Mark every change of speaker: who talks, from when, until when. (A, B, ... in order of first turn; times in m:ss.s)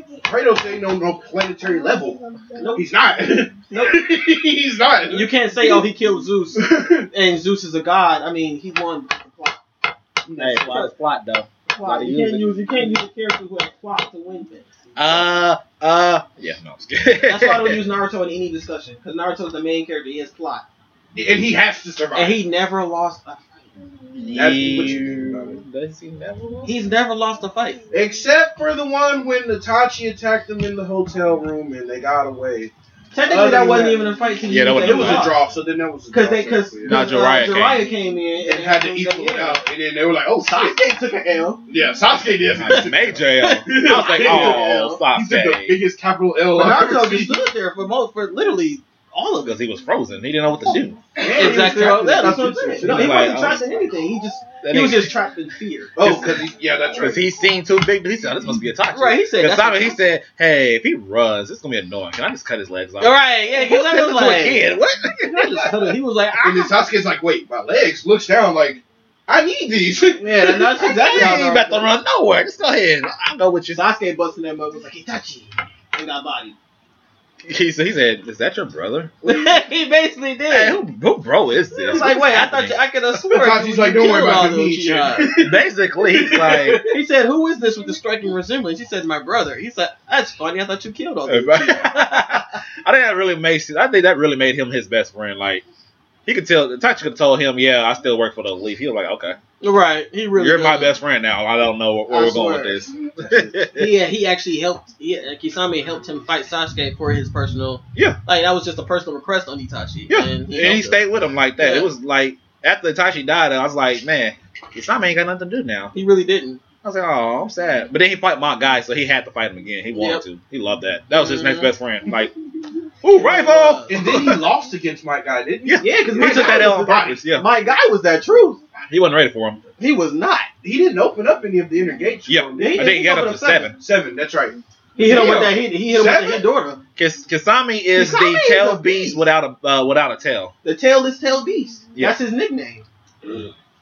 0:00.2-0:02.2 A
0:02.6-0:04.5 B
0:02.7-0:05.9 A
0:05.1-0:09.6 B
0:06.5-0:07.1 A
0:10.2-0:10.8 A
0:10.4-0:12.6 C
0:10.6-0:10.9 B
0:11.8-0:14.7 B
0:15.0-0:17.8 C
0:17.2-0:20.6 B
0:21.1-0:22.4 A
0:22.1-0:23.6 B
0:24.1-0:26.8 C
0:24.3-0:25.6 A
0:26.6-0:27.8 B
0:27.9-0:32.7 A
0:33.1-0:35.4 B
0:33.2-0:34.1 A
0:34.4-0:35.3 C
0:34.7-0:37.0 A
0:36.1-0:39.6 B
0:36.8-0:37.9 C
0:38.4-0:40.8 A
0:40.4-0:41.6 B
0:41.7-0:43.3 A
0:42.6-0:45.8 C
0:43.4-0:45.0 B
0:44.0-0:44.6 A
0:45.1-0:47.4 A
0:46.5-0:49.6 B
0:49.4-0:51.0 C
0:51.2-0:53.7 A
0:51.2-0:56.3 B
0:52.8-0:53.6 C
0:54.6-0:55.2 C
0:56.0-0:57.3 A
0:57.0-1:05.7 C
0:58.9-1:00.0 B
1:03.0-1:04.7 B
1:05.3-1:06.8 B
1:06.4-1:11.5 A
1:10.2-1:11.9 B
1:10.9-1:13.8 C
1:13.7-1:16.6 B
1:17.4-1:19.1 C
1:19.2-1:20.8 B
1:20.5-1:22.8 C
1:21.8-1:25.4 B
1:23.3-1:25.5 A
1:25.4-1:26.8 C
1:26.1-1:26.8 A
1:26.4-1:32.5 B
1:31.3-1:35.6 C
1:36.2-1:39.4 C
1:39.6-1:41.0 B
1:40.4-1:43.9 C
1:42.1-1:42.8 B
1:43.7-1:51.0 B
1:50.1-1:55.9 C
1:51.6-1:51.9 B
1:55.9-1:56.6 B
1:56.8-2:02.3 C
1:59.9-2:00.2 B
2:01.1-2:01.7 B
2:03.0-2:04.4 C
2:03.1-2:04.0 B
2:03.9-2:07.2 A
2:05.6-2:07.5 C
2:05.8-2:08.6 B
2:08.9-2:09.6 C
2:09.8-2:10.5 B
2:10.6-2:13.0 A
2:12.3-2:13.7 C
2:12.5-2:13.7 B
2:13.8-2:16.5 A
2:15.0-2:16.8 B
2:17.0-2:20.5 C
2:17.9-2:19.2 B
2:20.6-2:22.8 B